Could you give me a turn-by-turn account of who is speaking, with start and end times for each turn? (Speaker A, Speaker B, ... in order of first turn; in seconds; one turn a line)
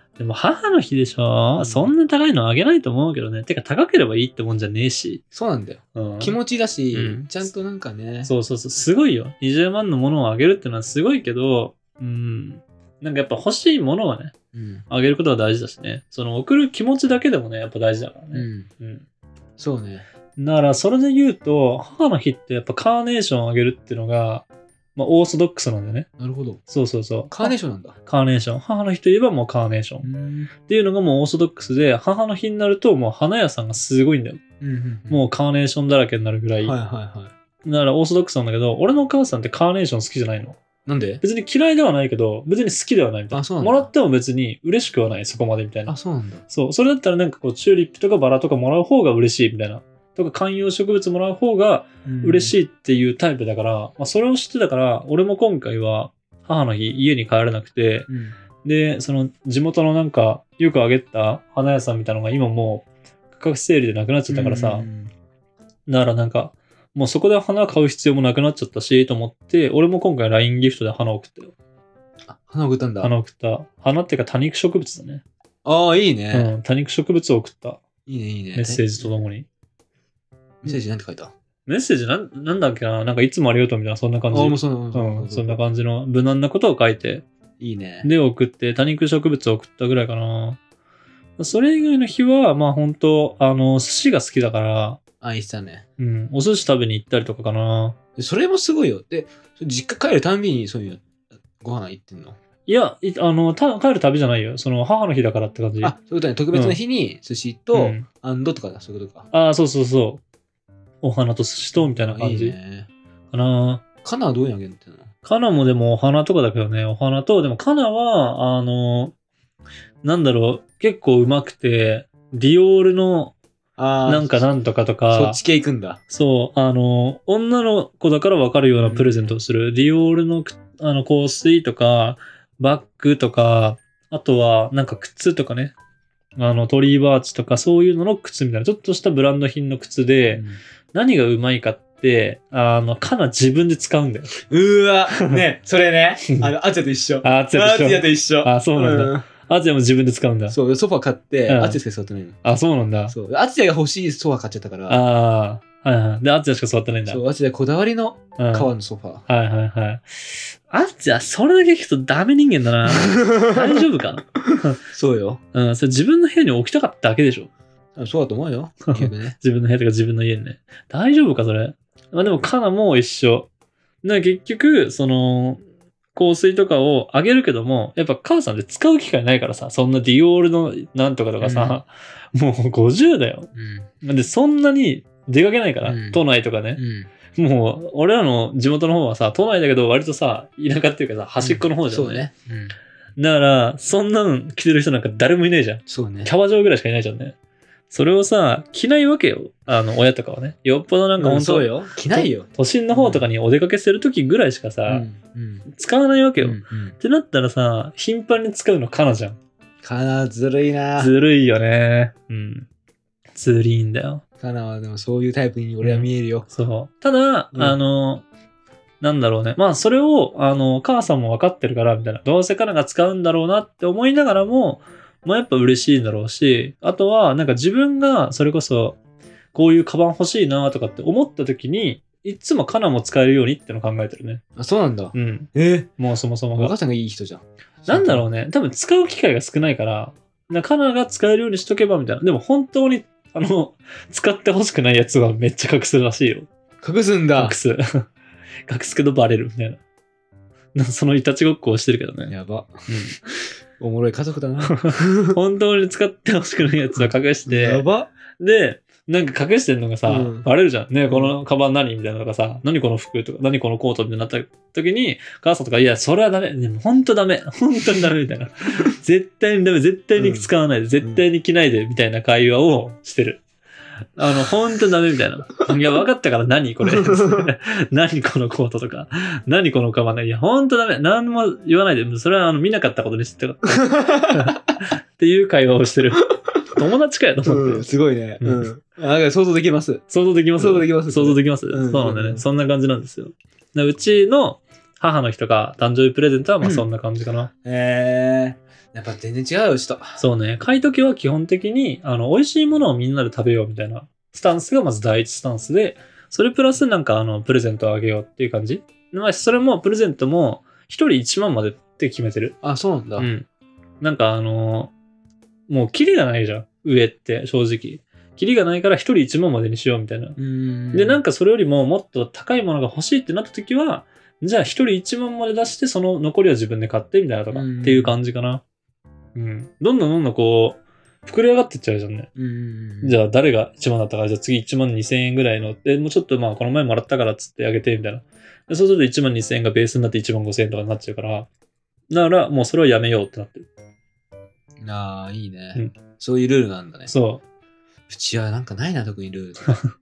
Speaker A: 0.2-5.2
Speaker B: 1.6-1.9
Speaker B: 5.3-8.3
Speaker A: 6.0-6.4
Speaker A: 6.9-7.5
Speaker A: 8.2-14.3
Speaker B: 14.5-14.8
Speaker A: 14.9-19.1
Speaker B: 18.3-18.7
Speaker B: 19.6-20.1
Speaker A: 20.4-26.1
Speaker B: 26.2-26.6
Speaker A: 26.7-27.5
Speaker B: 27.3-28.0
Speaker A: 28.1-30.1
Speaker B: 30.0-30.5
Speaker A: 30.6-34.4
Speaker B: 34.6-35.2
Speaker A: 35.1-36.8
Speaker B: 36.6-37.3
Speaker A: 37.6-40.6
Speaker B: 40.9-41.2
Speaker A: 41.2-45.9
Speaker B: 43.3-43.9
Speaker B: 45.9-46.4
Speaker A: 46.5-58.1
Speaker B: 52.0-52.6
Speaker B: 58.1-58.4
Speaker A: 58.6-64.9
Speaker B: 64.3-65.1
Speaker A: 65.9-71.5
Speaker B: 72.3-73.1
Speaker A: 73.0-75.2
Speaker B: 75.7-76.5
Speaker A: 76.3-77.8
Speaker B: 78.1-79.1
Speaker A: 78.5-79.5
Speaker B: 80.6-81.3
Speaker A: 81.7-87.2
Speaker B: 84.3-85.6
Speaker B: 87.6-88.1
Speaker A: 88.0-90.6
Speaker A: 91.4-95.0
Speaker B: 95.2-95.8
Speaker A: 96.0-98.0
Speaker B: 98.2-101.1
Speaker B: 101.6-102.4
Speaker A: 102.7-106.0
Speaker B: 105.8-109.3
Speaker A: 106.5-106.8
Speaker A: 107.7-108.1
Speaker A: 109.3-110.2
Speaker A: 111.0-112.6
Speaker B: 111.8-112.9
Speaker A: 113.3-113.8
Speaker B: 114.0-115.1
Speaker A: 115.2-119.1
Speaker A: 120.0-123.3
Speaker B: 123.8-124.5
Speaker A: 124.1-125.4
Speaker B: 125.1-126.0
Speaker A: 126.1-135.7
Speaker B: 128.8-129.3
Speaker A: 136.4-140.4
Speaker B: 140.3-140.6
Speaker A: 140.9-144.4
Speaker B: 144.5-149.3
Speaker A: 146.3-146.5
Speaker A: 147.2-150.6
Speaker B: 150.5-152.4
Speaker A: 151.5-151.8
Speaker A: 152.4-153.2
Speaker B: 153.1-155.0
Speaker A: 154.9-157.2
Speaker B: 157.1-159.2
Speaker A: 158.4-158.7
Speaker A: 159.3-164.8
Speaker B: 162.9-163.7
Speaker B: 164.9-165.4
Speaker A: 165.5-167.5
Speaker B: 168.0-169.4
Speaker A: 168.9-173.5
Speaker A: 174.0-175.6
Speaker A: 176.2-183.5
Speaker B: 181.4-181.8
Speaker B: 183.5-183.9
Speaker A: 184.0-186.8
Speaker B: 185.8-186.2
Speaker B: 186.8-187.1
Speaker A: 187.3-192.3
Speaker B: 191.4-192.8
Speaker A: 193.2-197.3
Speaker B: 195.9-196.3
Speaker A: 197.9-205.1
Speaker B: 201.2-203.3
Speaker B: 204.9-205.7
Speaker A: 205.7-209.4
Speaker B: 206.4-207.0
Speaker B: 209.8-211.1
Speaker A: 211.0-212.7
Speaker A: 213.3-214.2
Speaker B: 214.4-216.5
Speaker A: 215.8-218.2
Speaker B: 217.5-217.8
Speaker A: 219.0-229.0
Speaker A: 229.5-234.4
Speaker B: 234.6-235.9
Speaker A: 235.1-236.7
Speaker B: 236.5-238.3
Speaker A: 237.9-246.5
Speaker B: 246.8-247.6
Speaker A: 247.4-248.1
Speaker A: 248.7-249.8
Speaker A: 250.8-252.3
Speaker B: 252.3-255.4
Speaker A: 252.9-253.2
Speaker A: 254.7-257.9
Speaker B: 257.0-258.1
Speaker A: 258.4-273.4
Speaker B: 260.1-260.5
Speaker B: 261.1-261.4
Speaker B: 270.2-270.5
Speaker A: 274.2-287.9
Speaker B: 276.8-277.5
Speaker B: 283.8-284.6
Speaker B: 286.3-286.6
Speaker B: 287.5-290.0
Speaker A: 288.4-288.7
Speaker A: 290.1-297.5
Speaker B: 290.6-292.4
Speaker B: 296.6-296.9
Speaker B: 297.6-300.2
Speaker A: 300.2-312.6
Speaker B: 312.6-313.3
Speaker A: 313.2-313.5
Speaker A: 314.0-314.9
Speaker A: 315.7-320.4
Speaker B: 320.4-321.2
Speaker A: 320.9-328.6
Speaker B: 327.5-328.2
Speaker A: 329.4-332.3
Speaker B: 332.4-333.2
Speaker A: 333.0-341.5
Speaker A: 342.1-343.7
Speaker B: 344.8-347.1
Speaker A: 347.1-347.4
Speaker B: 348.1-349.8